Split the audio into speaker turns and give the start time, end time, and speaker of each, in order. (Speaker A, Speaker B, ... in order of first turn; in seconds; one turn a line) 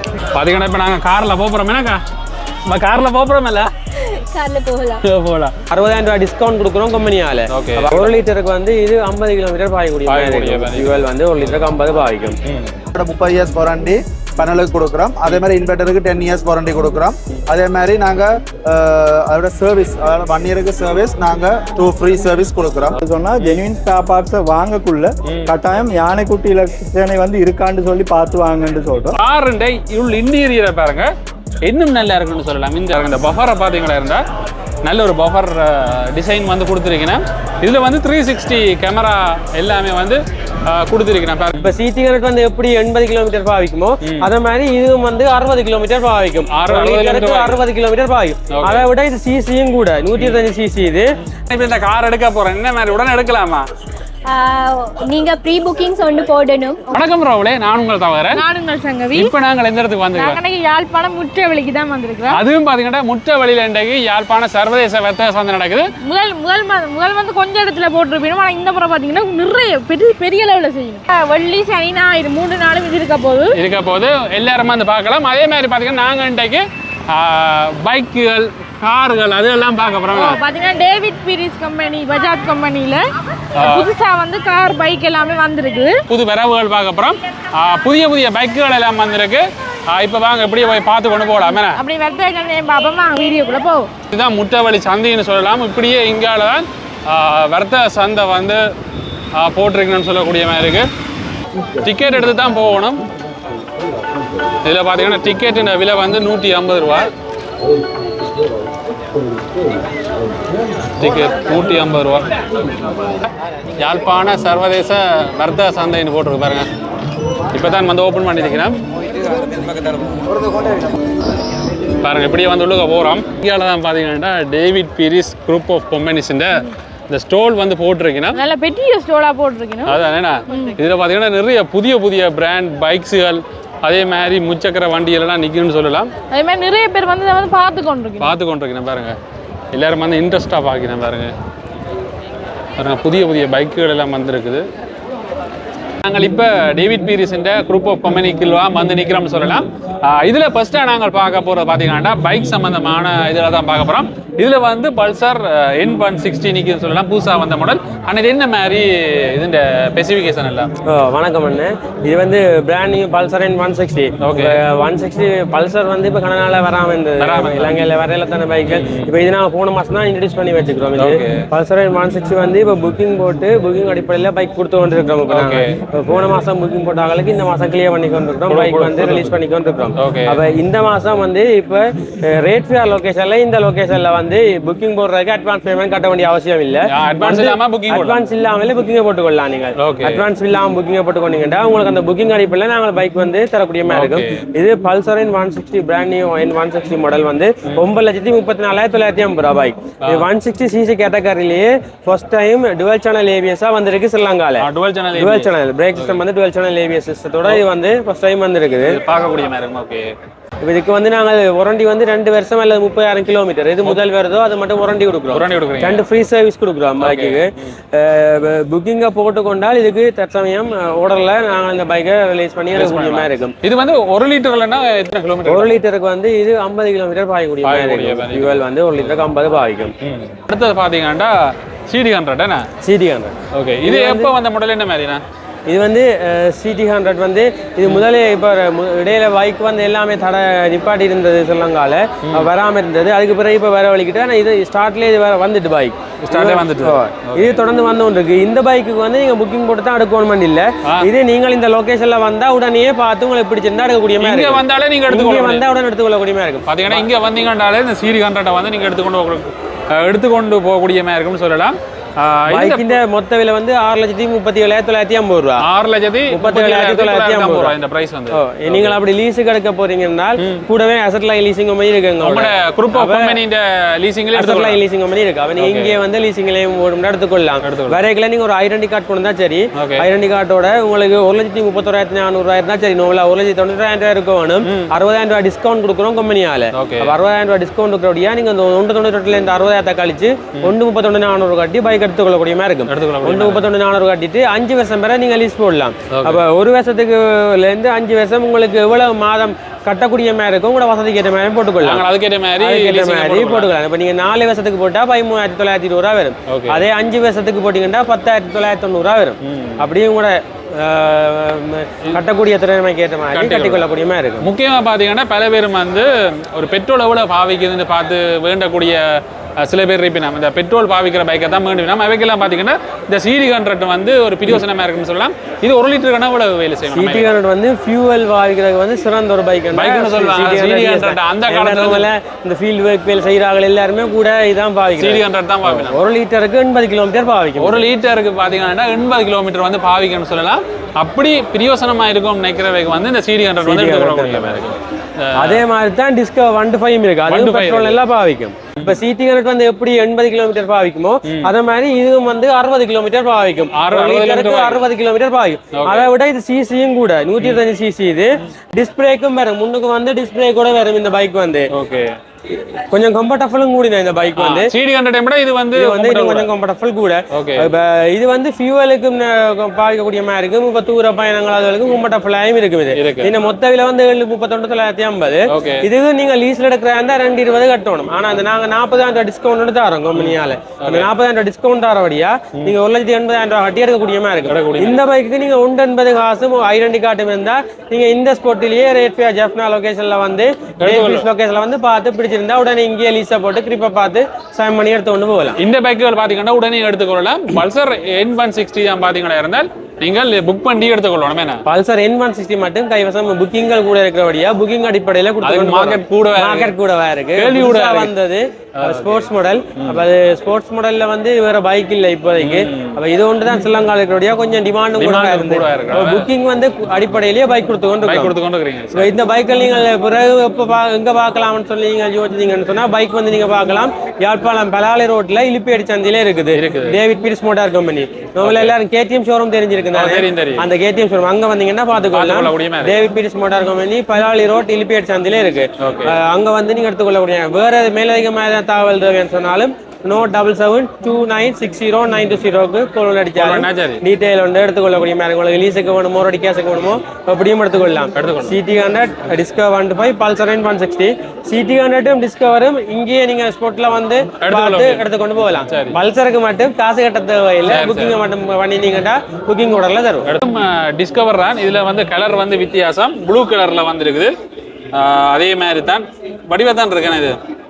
Speaker A: 0.3-2.0
Speaker A: 2.7-3.7
Speaker B: 4.0-5.0
Speaker A: 5.0-5.5
Speaker C: 5.7-12.4
Speaker A: 7.5-8.2
Speaker A: 10.1-11.6
Speaker A: 12.4-12.7
Speaker D: 12.9-23.0
Speaker E: 23.0-29.2
Speaker A: 25.3-25.5
Speaker A: 29.2-31.1
Speaker A: 31.6-34.2
Speaker A: 34.8-41.7
Speaker C: 41.5-51.1
Speaker A: 44.0-44.3
Speaker A: 46.5-47.6
Speaker A: 48.5-48.9
Speaker A: 50.2-50.4
Speaker A: 51.5-53.7
Speaker B: 54.3-57.0
Speaker A: 56.9-58.4
Speaker F: 58.3-59.3
Speaker A: 59.1-60.4
Speaker F: 60.1-62.4
Speaker A: 62.3-65.9
Speaker F: 66.0-73.6
Speaker A: 73.5-80.4
Speaker F: 80.1-83.0
Speaker A: 83.5-83.9
Speaker F: 83.6-86.0
Speaker A: 86.1-91.8
Speaker F: 91.5-93.9
Speaker A: 94.1-98.6
Speaker A: 99.4-100.9
Speaker A: 101.7-103.0
Speaker A: 104.6-107.1
Speaker A: 111.0-116.7
Speaker A: 117.5-118.8
Speaker E: 119.1-120.9
Speaker A: 122.0-128.4
Speaker F: 128.3-130.0
Speaker A: 129.9-136.1
Speaker F: 130.5-130.8
Speaker F: 136.3-138.3
Speaker A: 138.2-139.2
Speaker A: 139.7-141.3
Speaker A: 142.8-144.7
Speaker A: 146.0-160.7
Speaker C: 160.9-209.0
Speaker A: 164.2-164.6
Speaker A: 167.2-167.8
Speaker A: 168.7-169.1
Speaker A: 171.0-171.5
Speaker A: 175.3-175.7
Speaker A: 178.5-179.3
Speaker A: 180.0-180.4
Speaker A: 186.9-188.2
Speaker A: 189.8-190.3
Speaker A: 193.9-194.4
Speaker A: 204.6-206.2
Speaker A: 208.8-210.1
Speaker C: 210.6-223.5
Speaker A: 215.3-216.1
Speaker A: 217.0-217.7
Speaker A: 222.7-225.8
Speaker C: 225.5-229.9
Speaker A: 227.6-229.2
Speaker A: 230.0-232.7
Speaker C: 232.8-234.3
Speaker A: 233.5-235.2
Speaker C: 235.7-257.1
Speaker A: 246.3-247.6
Speaker A: 250.8-251.1
Speaker A: 254.2-255.6
Speaker A: 256.7-263.0
Speaker C: 262.5-265.6
Speaker A: 265.6-269.0
Speaker C: 266.3-267.8
Speaker C: 268.3-273.4
Speaker A: 270.4-270.6
Speaker A: 272.2-274.8
Speaker C: 274.4-302.1
Speaker A: 275.6-275.9
Speaker A: 277.6-278.0
Speaker A: 279.8-280.0
Speaker A: 284.6-284.9
Speaker A: 286.8-287.1
Speaker A: 292.9-293.7
Speaker A: 296.1-296.4
Speaker A: 301.8-303.7
Speaker C: 302.6-314.5
Speaker A: 306.5-306.9
Speaker A: 309.4-309.9
Speaker A: 313.3-313.9
Speaker A: 314.4-327.4
Speaker C: 326.9-337.9
Speaker A: 329.7-332.1
Speaker A: 335.0-336.0
Speaker A: 337.6-345.6
Speaker C: 343.6-344.6
Speaker C: 345.4-361.7
Speaker A: 347.3-348.0
Speaker A: 353.7-354.9
Speaker A: 355.8-356.1
Speaker A: 361.7-362.1
Speaker C: 362.5-364.7
Speaker A: 364.4-366.5
Speaker C: 365.8-395.6
Speaker A: 367.3-367.7
Speaker A: 372.9-373.3
Speaker A: 375.5-375.9
Speaker A: 380.1-381.1
Speaker A: 384.5-385.0
Speaker A: 390.8-391.3
Speaker A: 395.6-401.6
Speaker C: 401.6-418.4
Speaker A: 405.4-406.7
Speaker A: 407.4-408.1
Speaker A: 408.8-410.0
Speaker A: 412.4-413.0
Speaker A: 415.0-416.3
Speaker A: 418.0-419.1
Speaker C: 418.9-460.3
Speaker A: 426.5-427.0
Speaker A: 428.4-428.8
Speaker A: 429.9-430.7
Speaker A: 432.1-433.0
Speaker A: 435.8-436.2
Speaker A: 443.4-444.0
Speaker A: 448.1-448.6
Speaker A: 454.4-456.0
Speaker A: 457.7-458.2
Speaker A: 460.2-464.3
Speaker A: 464.9-467.4